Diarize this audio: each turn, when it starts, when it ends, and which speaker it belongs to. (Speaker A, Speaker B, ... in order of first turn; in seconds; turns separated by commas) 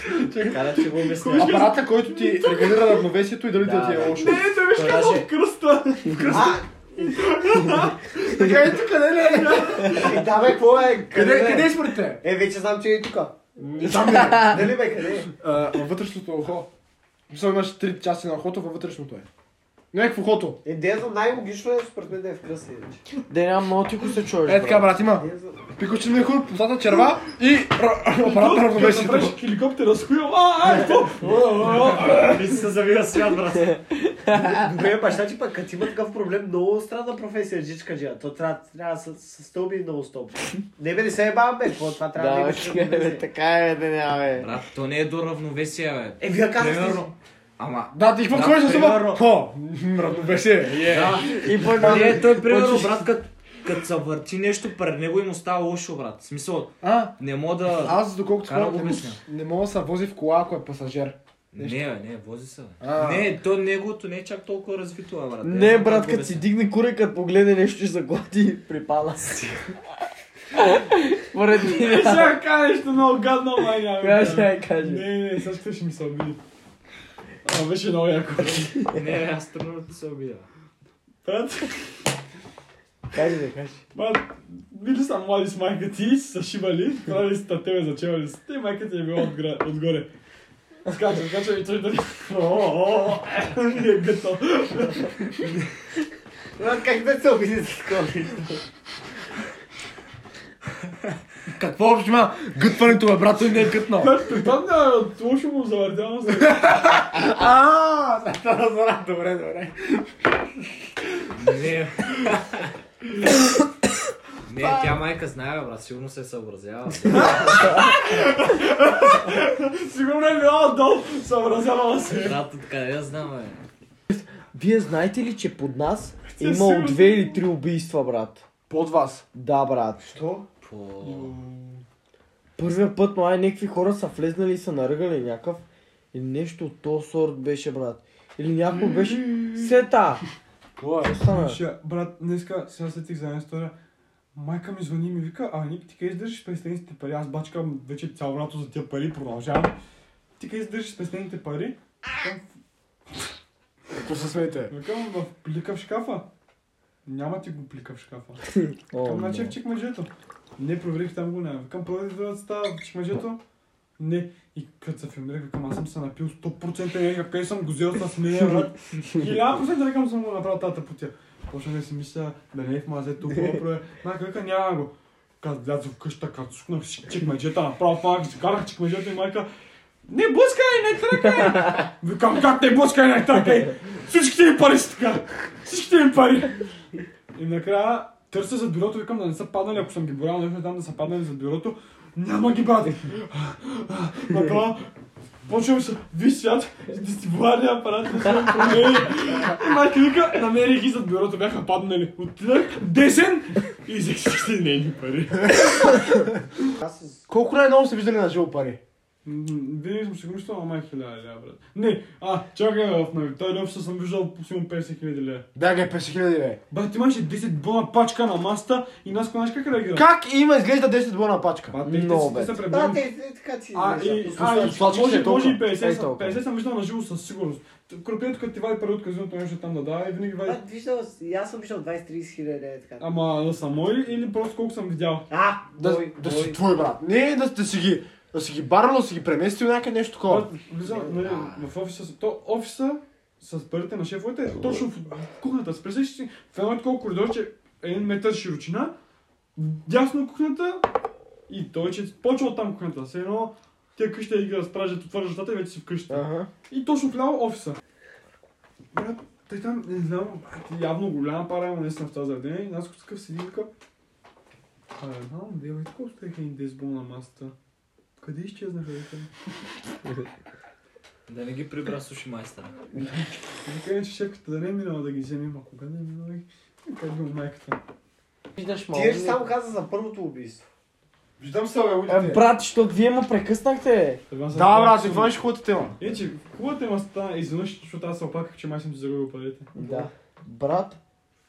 Speaker A: 0.3-0.6, Speaker B: 0.4-3.0, Speaker C: 0.5-1.7, Speaker A: 1.3-4.5, Speaker C: 3.6-5.3, Speaker B: 4.1-10.3, Speaker D: 6.3-6.7, Speaker A: 8.2-10.0, Speaker D: 9.5-13.4, Speaker A: 11.1-12.2, Speaker A: 13.6-16.7, Speaker E: 14.0-14.6, Speaker D: 14.1-15.3, Speaker A: 17.3-19.3, Speaker A: 19.9-20.6, Speaker D: 20.6-23.0, Speaker E: 23.3-24.9, Speaker A: 24.4-29.4, Speaker D: 25.1-25.7, Speaker B: 28.2-32.5, Speaker D: 30.7-33.8, Speaker C: 32.3-33.6, Speaker E: 33.5-34.9, Speaker D: 34.3-43.2, Speaker E: 42.1-44.5, Speaker C: 44.4-49.2, Speaker D: 46.2-47.1, Speaker A: 47.9-52.1, Speaker C: 50.8-59.2, Speaker E: 51.1-53.1, Speaker A: 56.8-57.1, Speaker A: 57.7-61.8, Speaker C: 61.5-66.5, Speaker A: 62.8-63.4, Speaker E: 65.4-69.7, Speaker E: 70.5-72.4, Speaker B: 71.7-76.4, Speaker E: 74.0-75.1, Speaker B: 77.4-78.9, Speaker C: 78.9-80.5, Speaker B: 81.2-82.1, Speaker E: 83.1-83.8, Speaker B: 84.0-90.1, Speaker B: 90.9-95.5, Speaker D: 96.6-98.6, Speaker A: 101.5-104.2, Speaker B: 104.0-106.8, Speaker A: 106.4-110.3, Speaker C: 111.3-112.8, Speaker C: 114.5-117.8, Speaker B: 117.1-122.4, Speaker C: 122.2-123.6, Speaker E: 124.1-128.4, Speaker B: 126.4-127.4, Speaker A: 128.7-129.2, Speaker E: 129.3-130.1, Speaker D: 130.0-130.5, Speaker C: 130.6-131.3, Speaker B: 131.0-131.8, Speaker E: 132.6-140.2, Speaker B: 138.8-139.8, Speaker A: 140.8-141.2, Speaker E: 141.0-141.6, Speaker B: 141.2-143.7, Speaker B: 144.3-149.8, Speaker B: 150.4-152.5, Speaker A: 154.0-154.7, Speaker B: 154.7-156.3, Speaker B: 157.1-158.4, Speaker E: 158.6-159.6, Speaker B: 159.0-163.4, Speaker B: 164.0-179.5, Speaker B: 180.1-186.7, Speaker B: 187.3-194.9, Speaker B: 195.5-206.1, Speaker D: 206.7-207.3, Speaker A: 207.3-208.8, Speaker B: 209.2-215.5, Speaker A: 215.6-216.6, Speaker B: 216.7-220.1, Speaker A: 219.9-221.8, Speaker B: 221.7-223.1, Speaker E: 221.8-222.7, Speaker D: 222.7-224.8, Speaker B: 223.7-230.6, Speaker A: 224.4-225.6, Speaker E: 225.7-226.4, Speaker D: 230.4-233.1, Speaker B: 233.0-235.3, Speaker D: 235.3-236.6, Speaker A: 235.8-240.5, Speaker B: 240.3-248.9, Speaker D: 240.8-241.4, Speaker B: 249.6-250.9, Speaker B: 251.5-257.8, Speaker E: 256.1-256.5, Speaker B: 258.9-263.7, Speaker B: 265.0-267.5, Speaker B: 268.2-269.3, Speaker C: 271.3-272.8, Speaker B: 273.6-277.8, Speaker E: 278.6-279.5, Speaker D: 278.9-280.7, Speaker A: 281.4-282.5, Speaker E: 282.1-284.2, Speaker B: 284.3-285.4, Speaker A: 284.5-286.0, Speaker B: 286.0-289.7, Speaker E: 289.8-291.0